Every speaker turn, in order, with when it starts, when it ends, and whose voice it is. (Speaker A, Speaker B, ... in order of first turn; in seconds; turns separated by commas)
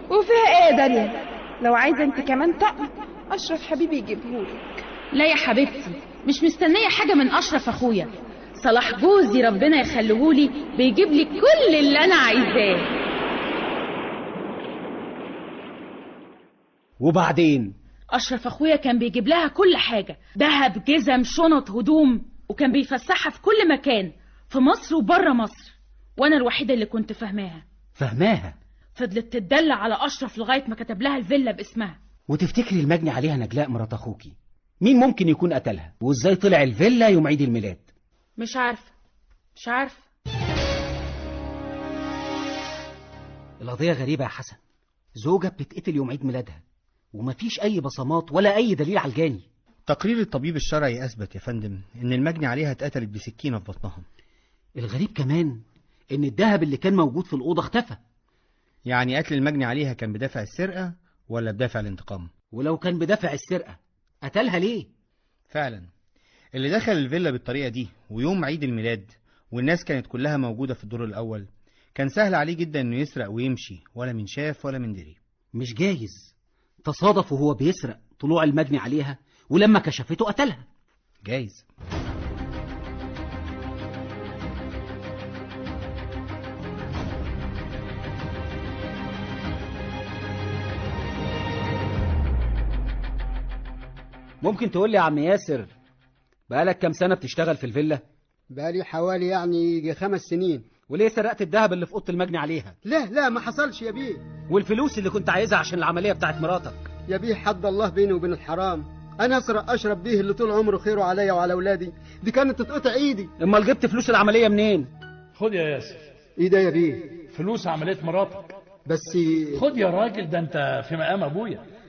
Speaker A: 0.1-4.8, Speaker B: 5.1-12.9, Speaker C: 17.0-17.7, Speaker B: 18.1-27.6, Speaker C: 28.0-28.6, Speaker B: 29.0-32.0, Speaker C: 32.3-37.9, Speaker B: 38.4-38.9, Speaker B: 39.6-40.1, Speaker C: 43.6-44.6, Speaker C: 45.2-46.6, Speaker C: 47.1-49.4, Speaker D: 49.9-54.0, Speaker C: 54.8-58.0, Speaker D: 58.9-62.3, Speaker C: 62.5-64.9, Speaker D: 65.5-65.9, Speaker D: 66.5-75.2, Speaker C: 75.5-76.3, Speaker C: 76.8-80.7, Speaker D: 81.2-81.6, Speaker C: 94.4-95.7, Speaker C: 96.5-98.0, Speaker E: 98.5-100.7, Speaker C: 100.9-102.8, Speaker E: 102.8-104.2, Speaker C: 104.5-106.9, Speaker E: 107.1-113.3, Speaker C: 113.4-114.9, Speaker F: 115.4-116.0, Speaker E: 116.4-117.1, Speaker F: 117.3-118.5, Speaker E: 118.9-119.6, Speaker F: 119.6-121.6